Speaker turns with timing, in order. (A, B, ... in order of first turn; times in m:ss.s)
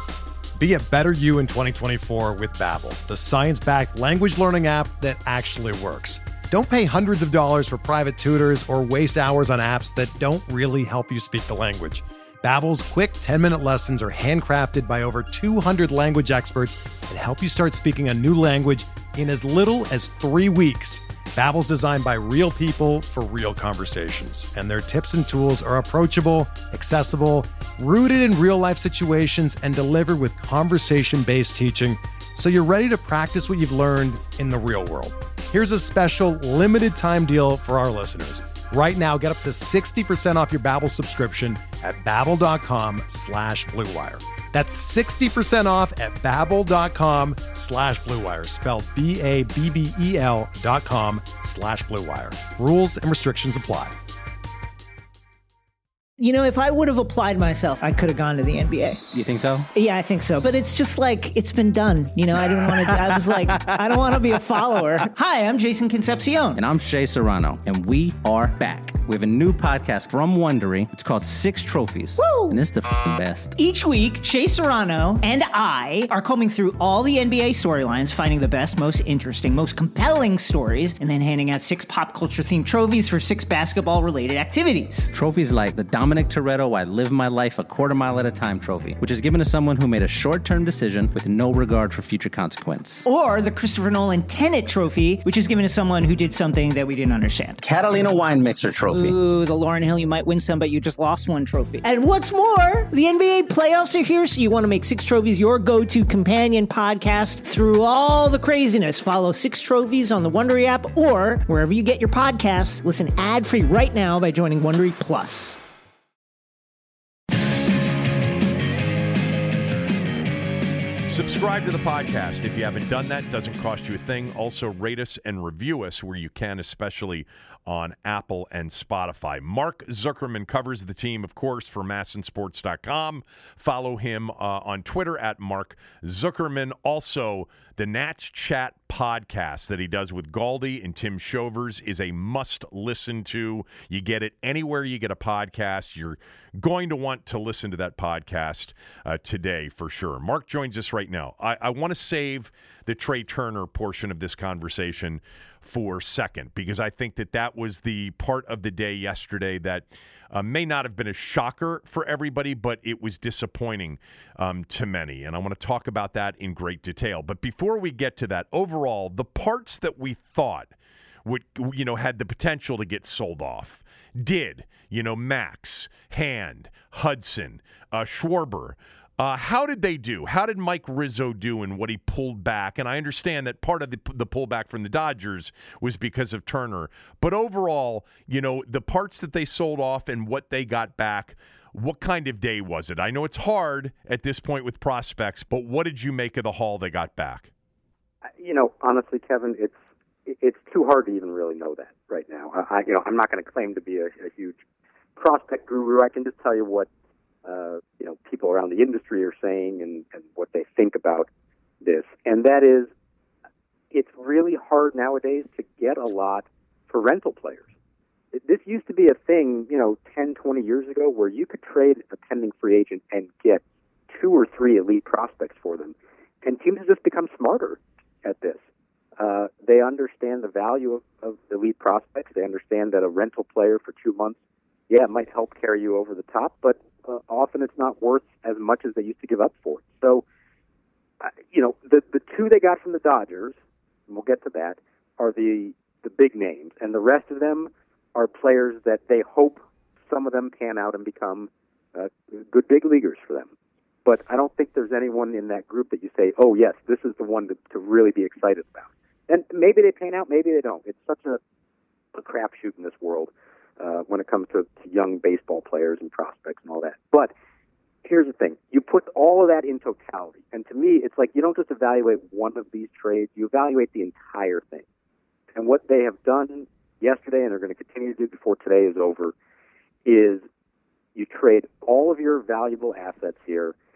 0:00.6-0:54.0 A
0:56.2-0:59.0 B
0:59.1-0:59.6 C
0:59.7-1:06.6 B
1:06.5-1:13.5 C
1:12.2-1:12.6 B
1:13.6-1:25.1 B
1:25.1-1:33.0 C
1:33.0-1:38.0 B
1:37.6-1:39.2 C
1:38.9-1:55.6 B
2:01.1-2:50.7 D
2:51.2-3:17.5 D
3:18.4-3:19.7 E
3:20.2-3:24.6 E
3:25.2-3:26.9 E
3:27.4-3:31.3 E
3:31.8-3:32.9 E
3:33.9-3:37.7 E
3:38.3-3:48.6 E
3:49.2-3:54.4 E
3:54.9-4:00.2 E
4:01.2-4:13.5 E
4:14.0-4:21.4 E
4:22.1-4:27.3 E
4:28.0-4:34.8 E
4:35.5-4:39.3 E
4:40.0-4:40.4 E
4:41.1-4:43.7 E